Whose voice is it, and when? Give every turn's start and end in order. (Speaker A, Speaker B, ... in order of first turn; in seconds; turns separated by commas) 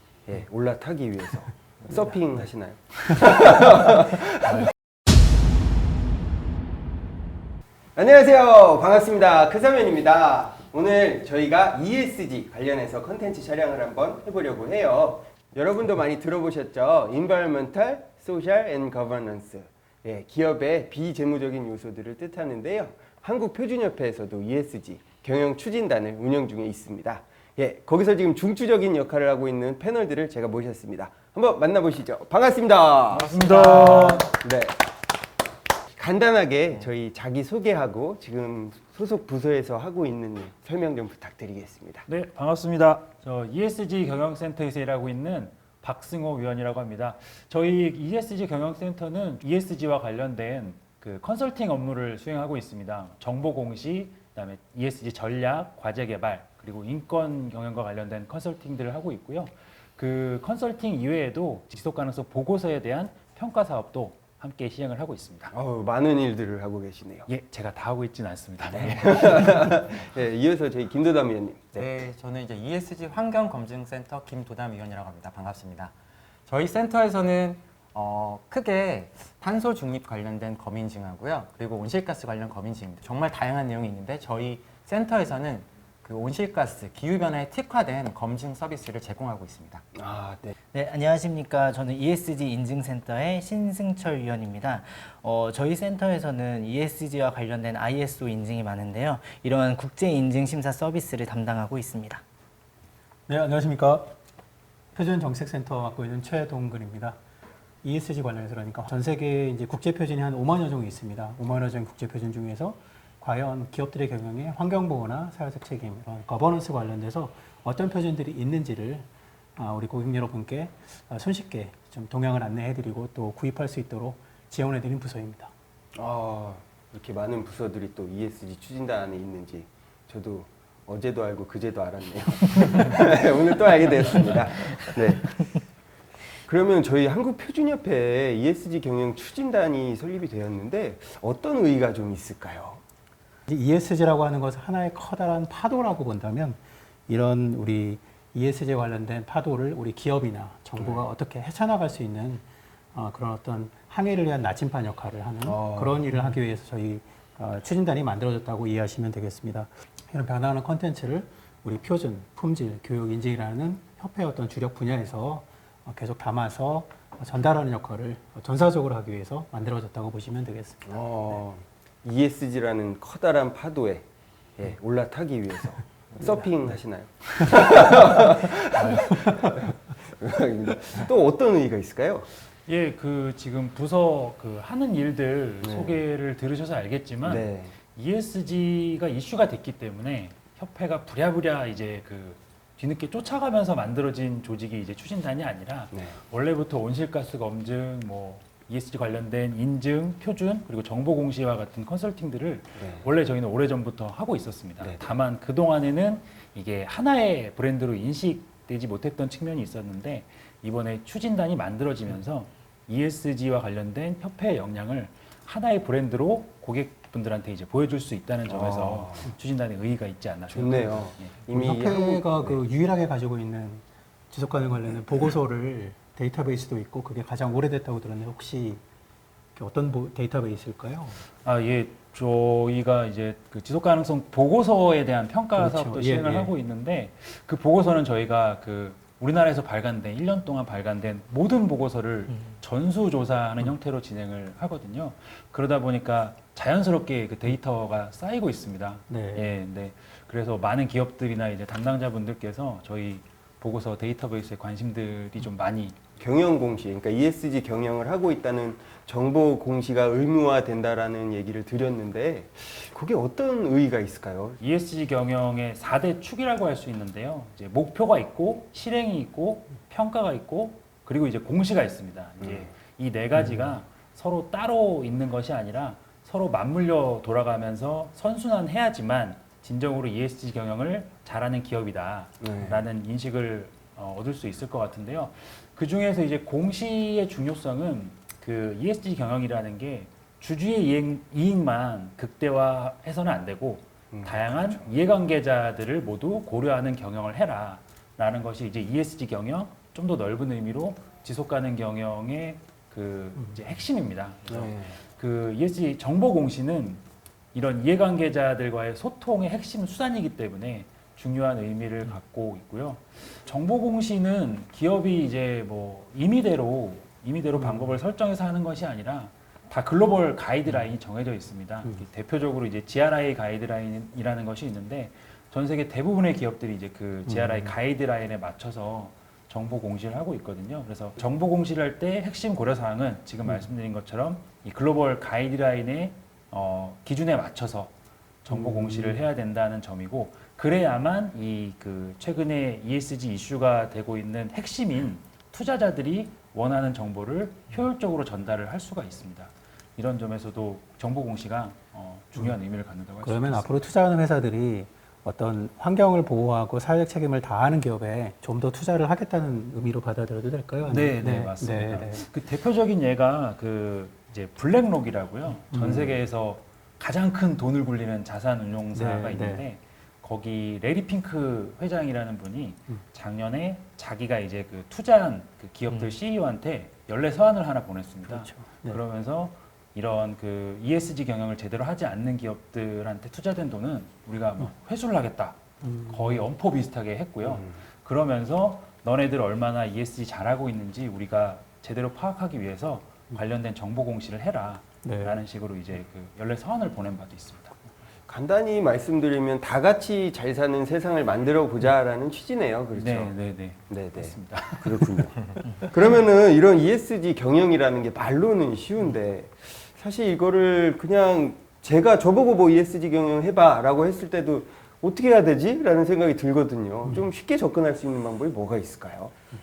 Speaker A: 0.3-4.7, Speaker A: 8.0-34.8, Speaker B: 33.1-34.3, Speaker A: 36.0-42.1, Speaker B: 42.1-65.5, Speaker A: 65.5-67.3, Speaker B: 67.3-69.8, Speaker A: 68.7-71.8, Speaker C: 71.8-75.9, Speaker C: 76.5-89.8, Speaker A: 90.0-90.5, Speaker D: 90.7-102.2, Speaker E: 103.3-104.2, Speaker E: 104.9-107.2, Speaker E: 107.8-125.5, Speaker A: 126.0-135.4, Speaker A: 136.5-142.8, Speaker E: 143.5-170.8, Speaker A: 150.8-151.0, Speaker A: 155.4-156.0, Speaker A: 170.8-174.1, Speaker A: 174.6-182.3, Speaker B: 182.7-221.3, Speaker A: 185.6-186.0, Speaker A: 187.2-187.8, Speaker A: 195.9-196.2, Speaker A: 202.8-203.1, Speaker A: 204.8-205.1, Speaker A: 218.5-219.3, Speaker A: 220.5-222.6, Speaker E: 221.5-228.8, Speaker E: 229.6-231.2, Speaker B: 231.4-256.0, Speaker E: 235.6-236.5, Speaker E: 249.1-249.5, Speaker A: 256.2-264.6, Speaker B: 264.6-307.0, Speaker A: 272.4-272.7, Speaker A: 282.4-282.8, Speaker A: 294.1-294.9, Speaker A: 304.5-305.0, Speaker B: 307.5-337.9, Speaker B: 338.4-353.8, Speaker E: 353.2-362.3, Speaker B: 360.8-397.8, Speaker E: 365.7-366.1, Speaker E: 368.9-369.6, Speaker E: 378.3-379.0, Speaker E: 385.8-386.3, Speaker A: 387.5-387.7, Speaker E: 395.0-395.4, Speaker A: 398.3-403.3, Speaker B: 403.0-405.3, Speaker A: 403.9-419.3